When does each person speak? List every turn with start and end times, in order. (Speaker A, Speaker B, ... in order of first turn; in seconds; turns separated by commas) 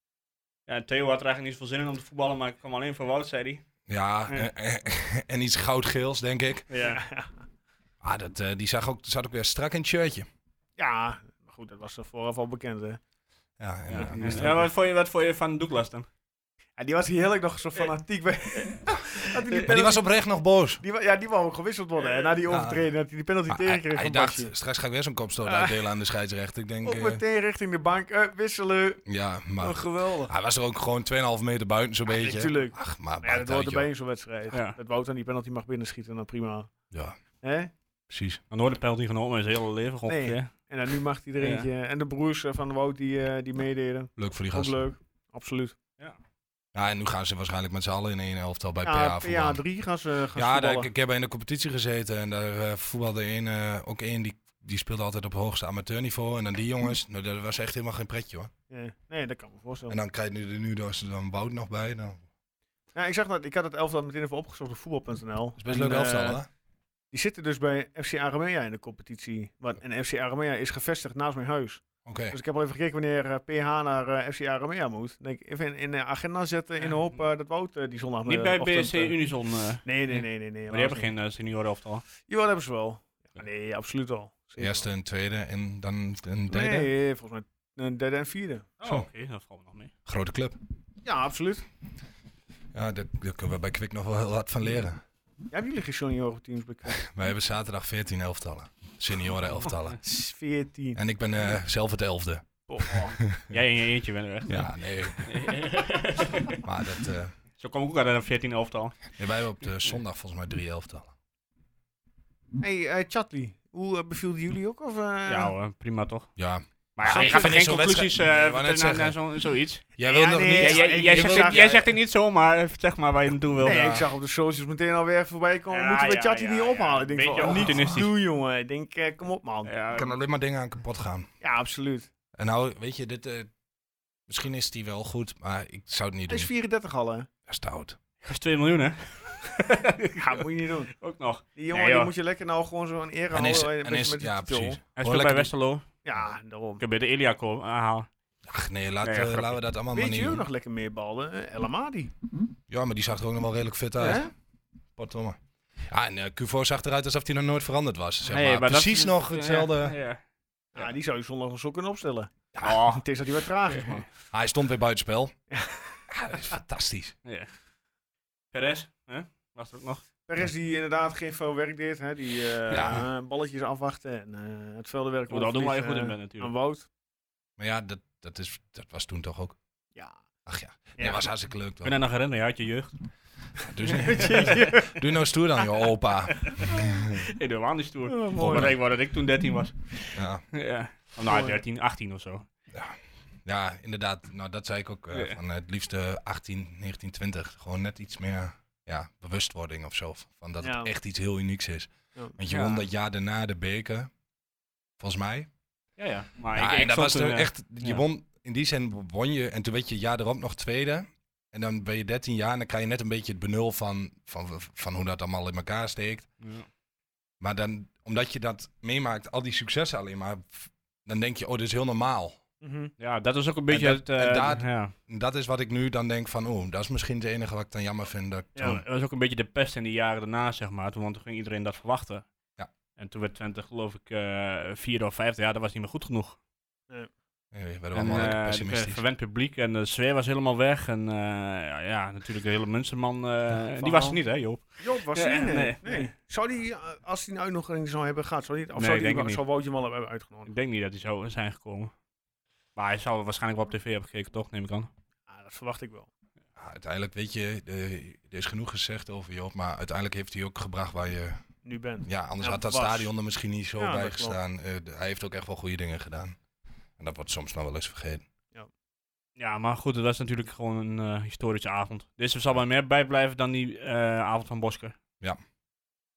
Speaker A: 0.7-3.6, Speaker B: 3.9-6.7, Speaker A: 6.7-7.0, Speaker C: 6.8-7.3, Speaker B: 8.0-10.3, Speaker C: 10.8-13.0, Speaker B: 13.6-14.6, Speaker A: 13.9-16.1, Speaker C: 13.9-14.7, Speaker C: 16.8-20.0, Speaker A: 18.5-18.8, Speaker B: 19.5-20.8, Speaker C: 20.8-24.5, Speaker B: 22.5-22.9, Speaker B: 23.5-27.2, Speaker C: 25.4-25.8, Speaker C: 26.8-29.0, Speaker B: 29.1-33.9, Speaker C: 29.6-30.3, Speaker C: 32.1-36.7, Speaker A: 34.5-34.8, Speaker C: 37.4-37.7, Speaker B: 38.1-38.4, Speaker A: 38.5-40.7, Speaker C: 40.1-45.8, Speaker A: 41.4-41.7, Speaker B: 44.2-44.7, Speaker B: 46.7-49.6, Speaker C: 48.8-50.9, Speaker B: 50.4-58.5, Speaker C: 58.7-60.0, Speaker B: 59.9-62.2, Speaker C: 63.0-66.4, Speaker B: 65.6-66.5, Speaker C: 67.1-79.2, Speaker B: 72.0-72.4, Speaker A: 78.3-82.0, Speaker C: 79.8-81.1, Speaker C: 82.3-84.9, Speaker B: 84.6-86.9, Speaker C: 86.5-88.7, Speaker A: 88.8-89.9, Speaker B: 90.1-90.6, Speaker C: 91.0-91.7, Speaker B: 92.7-95.0, Speaker C: 95.5-97.0, Speaker B: 96.9-100.0, Speaker C: 100.0-101.0, Speaker B: 101.0-103.6, Speaker C: 102.7-103.1, Speaker A: 102.9-106.6, Speaker B: 104.5-105.5, Speaker B: 106.6-107.3, Speaker A: 107.6-109.2, Speaker B: 109.2-111.1, Speaker C: 112.6-115.5, Speaker A: 115.3-116.3, Speaker B: 116.4-119.2, Speaker A: 117.0-119.9, Speaker B: 120.0-121.9, Speaker C: 120.0-121.7, Speaker A: 120.5-124.0, Speaker B: 123.6-124.0, Speaker C: 123.6-129.7, Speaker A: 125.7-128.1, Speaker B: 127.4-128.1, Speaker A: 129.7-130.1, Speaker B: 129.9-131.3, Speaker C: 131.4-132.1, Speaker B: 132.4-133.5, Speaker B: 134.3-136.5, Speaker C: 136.3-137.3, Speaker B: 137.5-138.0, Speaker A: 138.2-142.1, Speaker C: 140.2-140.9, Speaker C: 141.6-144.8, Speaker B: 143.3-145.5, Speaker A: 145.0-145.8, Speaker C: 146.1-146.8, Speaker A: 146.8-148.1, Speaker B: 148.5-150.4, Speaker A: 149.0-149.6, Speaker C: 149.9-152.1, Speaker B: 152.7-154.2, Speaker C: 154.0-154.3, Speaker B: 155.0-159.9, Speaker A: 158.2-160.2, Speaker C: 160.8-162.3, Speaker B: 162.5-162.8, Speaker A: 162.6-163.0, Speaker C: 162.9-164.1, Speaker A: 163.7-164.0, Speaker B: 164.3-165.3, Speaker C: 165.5-166.0, Speaker B: 166.1-167.2, Speaker A: 168.5-170.1, Speaker C: 170.3-176.9, Speaker B: 172.7-173.1, Speaker A: 175.3-176.5, Speaker B: 177.6-179.6, Speaker B: 180.5-182.0, Speaker C: 181.0-181.2, Speaker A: 181.8-182.9, Speaker B: 183.6-187.3, Speaker C: 183.9-184.9, Speaker A: 184.2-184.7, Speaker C: 186.6-187.2, Speaker A: 187.2-192.5, Speaker C: 188.1-188.8, Speaker B: 190.2-190.4, Speaker C: 191.2-191.6, Speaker B: 192.7-204.1, Speaker A: 195.1-195.4, Speaker C: 200.6-200.9, Speaker A: 202.5-202.8, Speaker B: 205.0-205.5, Speaker A: 206.0-208.0, Speaker B: 206.6-216.3, Speaker A: 216.4-216.7, Speaker B: 217.4-222.4, Speaker C: 222.6-222.9, Speaker A: 223.0-224.9, Speaker B: 223.7-228.8, Speaker A: 228.6-232.3, Speaker A: 233.0-236.4, Speaker B: 237.5-239.0, Speaker A: 237.9-246.1, Speaker C: 243.8-244.2, Speaker C: 244.8-250.5, Speaker A: 248.8-249.4, Speaker A: 250.5-251.9, Speaker A: 252.8-254.9, Speaker C: 255.3-256.1, Speaker B: 256.6-261.4, Speaker C: 261.6-263.1, Speaker B: 262.0-266.4, Speaker C: 263.8-264.4, Speaker B: 267.0-268.2, Speaker A: 269.4-274.9